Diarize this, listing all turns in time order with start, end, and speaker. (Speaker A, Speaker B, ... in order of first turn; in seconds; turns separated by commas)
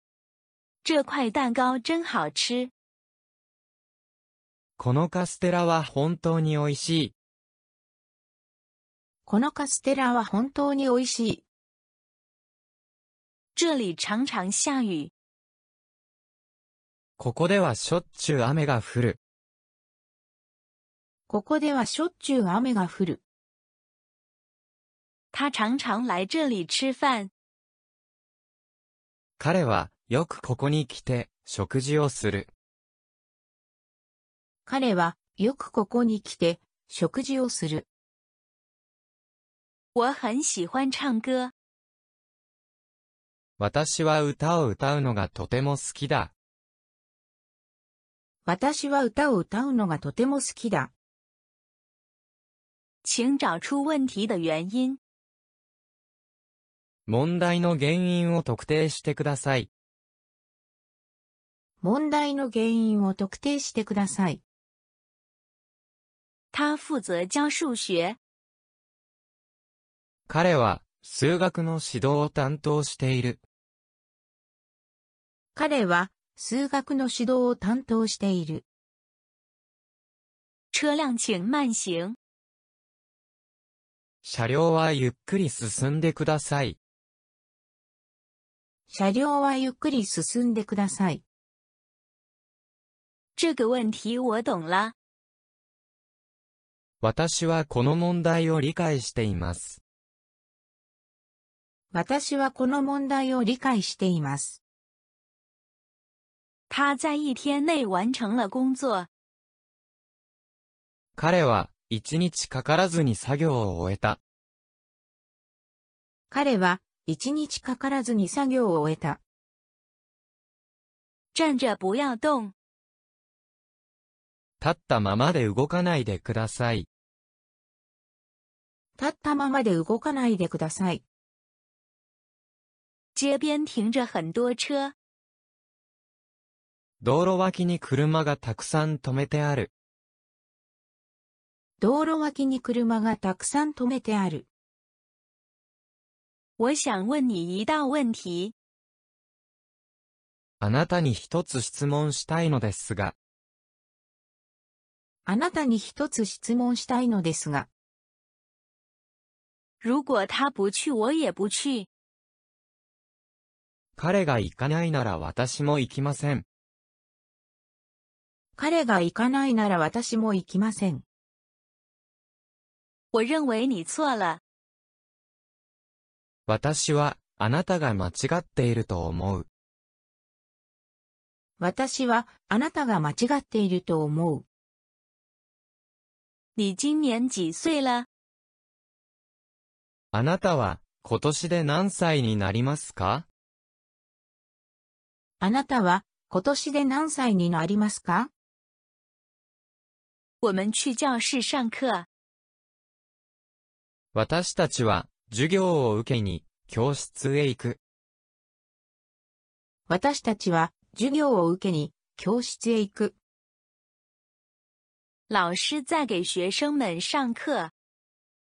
Speaker A: 0.8-2.7, Speaker B: 4.8-7.1, Speaker C: 9.2-11.4, Speaker A: 13.5-15.1, Speaker B: 17.2-19.2, Speaker C: 21.3-23.2, Speaker A: 25.3-27.3, Speaker B: 29.4-32.5, Speaker C: 34.6-37.9, Speaker A: 39.9-41.5, Speaker B: 43.6-46.3, Speaker C: 48.5-50.9, Speaker A: 53.0-55.0, Speaker B: 57.1-59.7, Speaker C: 61.8-64.4, Speaker A: 66.5-68.2, Speaker B: 70.3-73.4, Speaker C: 75.5-78.6, Speaker A: 80.7-82.2, Speaker B: 84.2-86.8, Speaker C: 88.9-91.2, Speaker A: 93.3-94.9, Speaker B: 97.0-99.8, Speaker C: 101.9-104.6, Speaker A: 106.7-109.1, Speaker B: 111.2-114.2, Speaker C: 116.3-119.2, Speaker A: 121.3-122.5, Speaker B: 124.6-126.9, Speaker C: 129.0-131.0, Speaker A: 133.1-134.9, Speaker B: 137.0-139.7, Speaker C: 141.8-144.5, Speaker A: 146.6-148.5, Speaker B: 150.6-153.2, Speaker C: 155.2-157.7, Speaker A: 159.8-161.9, Speaker B: 164.0-166.4, Speaker C: 168.6-171.0, Speaker A: 173.1-174.4, Speaker B: 176.5-179.5, Speaker C: 181.6-184.4, Speaker A: 186.6-188.1, Speaker B: 190.1-193.2, Speaker C: 195.4-198.3, Speaker A: 200.4-202.1, Speaker B: 204.1-207.8, Speaker C: 209.9-213.2, Speaker A: 215.3-217.7